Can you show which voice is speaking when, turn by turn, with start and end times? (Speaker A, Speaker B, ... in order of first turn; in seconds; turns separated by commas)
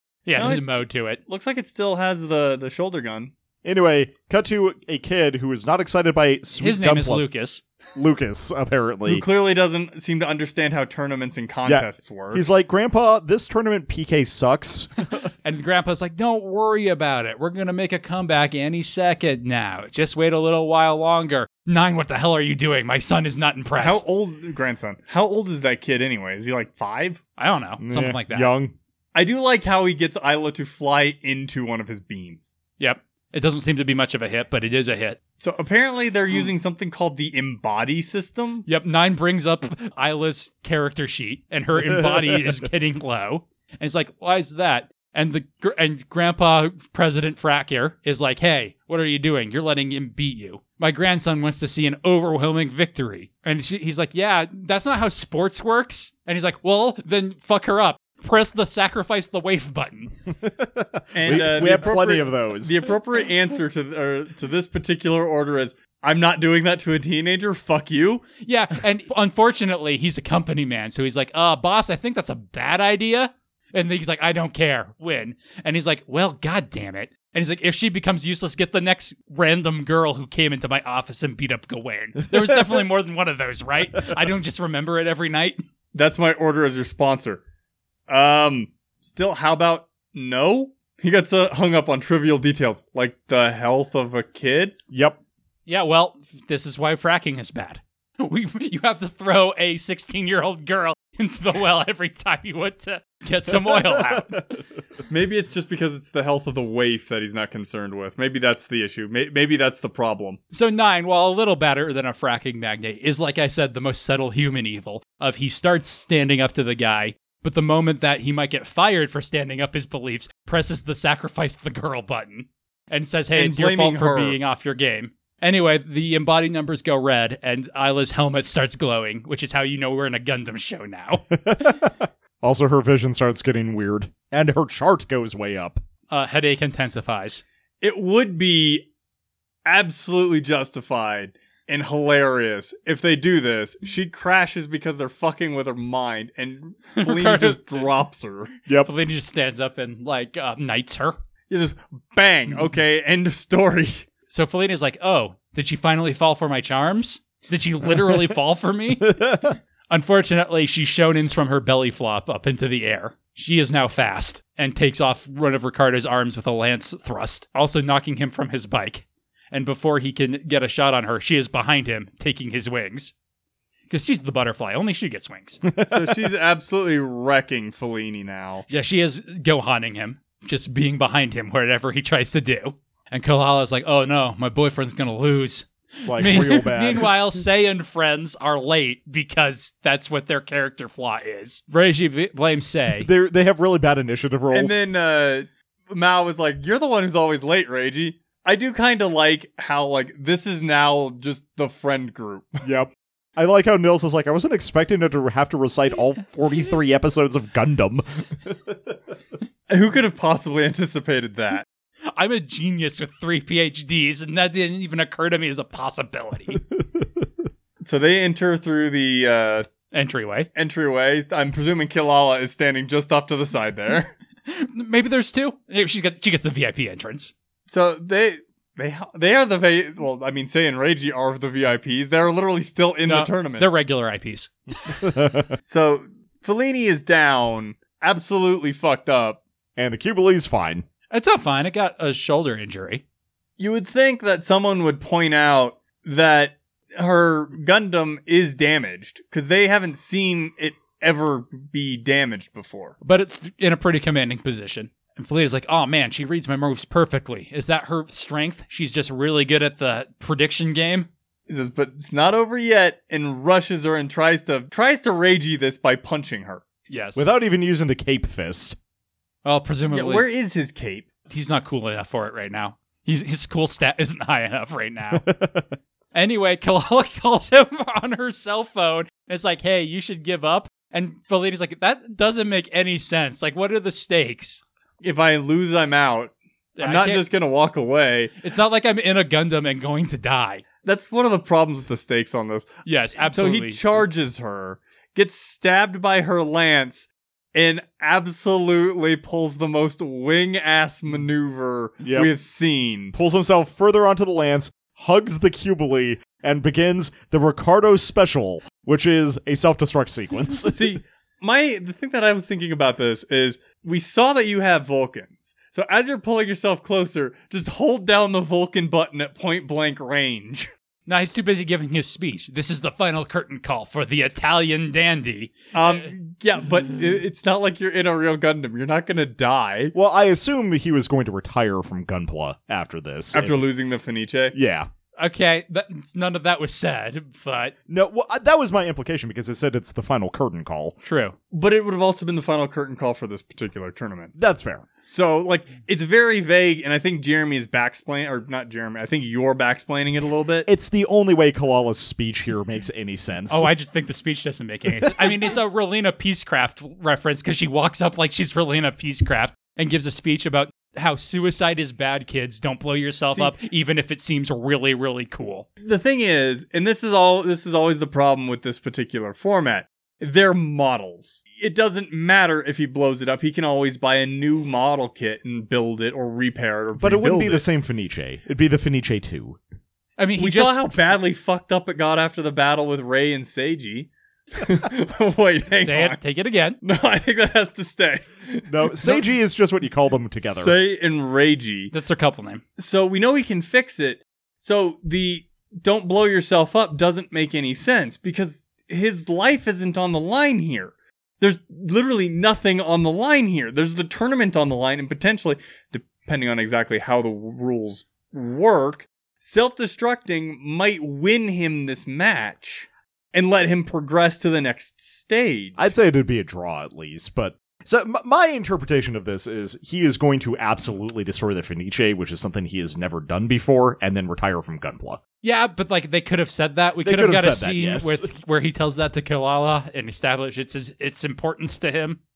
Speaker A: 0.3-1.2, Speaker B: 0.4-0.7, Speaker B: 1.3-3.3, Speaker C: 3.6-7.2, Speaker A: 6.6-7.6, Speaker C: 8.0-9.2, Speaker B: 9.1-12.5, Speaker C: 11.7-15.3, Speaker A: 15.4-24.0, Speaker B: 23.8-27.2, Speaker A: 27.4-28.5, Speaker C: 27.8-28.7, Speaker B: 29.1-32.5, Speaker A: 32.8-35.2, Speaker B: 35.4-38.7, Speaker A: 38.7-60.2, Speaker C: 41.9-42.5, Speaker C: 60.3-62.8, Speaker B: 61.1-68.3, Speaker A: 68.4-85.6, Speaker B: 85.9-87.4, Speaker B: 88.1-94.8, Speaker C: 94.9-95.2, Speaker A: 95.7-104.5, Speaker C: 103.6-104.5, Speaker B: 105.1-110.4, Speaker A: 110.5-131.8, Speaker B: 123.3-124.4, Speaker C: 131.3-135.8, Speaker A: 136.1-137.4, Speaker B: 137.8-138.9, Speaker B: 139.7-148.5, Speaker A: 146.9-147.8, Speaker A: 148.8-151.2, Speaker B: 151.5-154.1, Speaker A: 154.3-173.1, Speaker C: 159.1-159.6, Speaker A: 173.9-175.6, Speaker C: 175.7-176.3, Speaker B: 175.9-178.7, Speaker A: 178.7-193.1, Speaker C: 186.1-187.1, Speaker C: 192.9-194.8, Speaker B: 194.5-202.6, Speaker C: 202.6-209.0, Speaker B: 209.7-211.7, Speaker A: 212.1-216.6, Speaker B: 217.8-219.7, Speaker A: 219.9-220.5, Speaker B: 220.6-224.1, Speaker A: 224.5-227.3, Speaker B: 227.7-233.7, Speaker A: 233.1-235.0, Speaker C: 235.0-235.5, Speaker B: 235.7-239.4, Speaker C: 239.8-240.8, Speaker A: 241.1-243.0, Speaker B: 243.6-253.0, Speaker A: 253.0-261.1, Speaker B: 261.5-266.6, Speaker A: 266.9-267.3, Speaker C: 267.2-268.8, Speaker A: 269.4-270.2, Speaker B: 269.9-271.1, Speaker A: 271.3-275.3, Speaker C: 275.1-275.8, Speaker A: 276.1-284.6, Speaker B: 285.0-288.4, Speaker A: 286.8-287.2, Speaker A: 288.4-290.6, Speaker B: 290.8-303.1, Speaker A: 292.9-293.8, Speaker C: 302.0-302.3, Speaker C: 303.1-311.0, Speaker B: 310.7-320.7, Speaker A: 321.1-326.0, Speaker B: 325.7-329.9, Speaker C: 329.9-333.6, Speaker B: 333.3-334.6, Speaker C: 334.5-334.9, Speaker A: 335.2-337.7, Speaker C: 337.9-341.0, Speaker A: 341.0-341.4, Speaker B: 341.5-344.4, Speaker C: 344.4-344.9, Speaker B: 345.1-350.7, Speaker C: 350.7-353.7, Speaker A: 353.5-365.7, Speaker C: 355.0-355.4, Speaker B: 365.8-377.6, Speaker C: 377.0-379.6, Speaker A: 380.2-380.9, Speaker B: 380.4-386.2, Speaker A: 385.8-386.8, Speaker B: 386.8-389.3, Speaker C: 388.7-390.8, Speaker B: 390.4-391.9, Speaker A: 391.9-392.6, Speaker B: 392.8-415.9, Speaker C: 415.8-425.2, Speaker A: 425.4-432.2, Speaker C: 427.0-428.3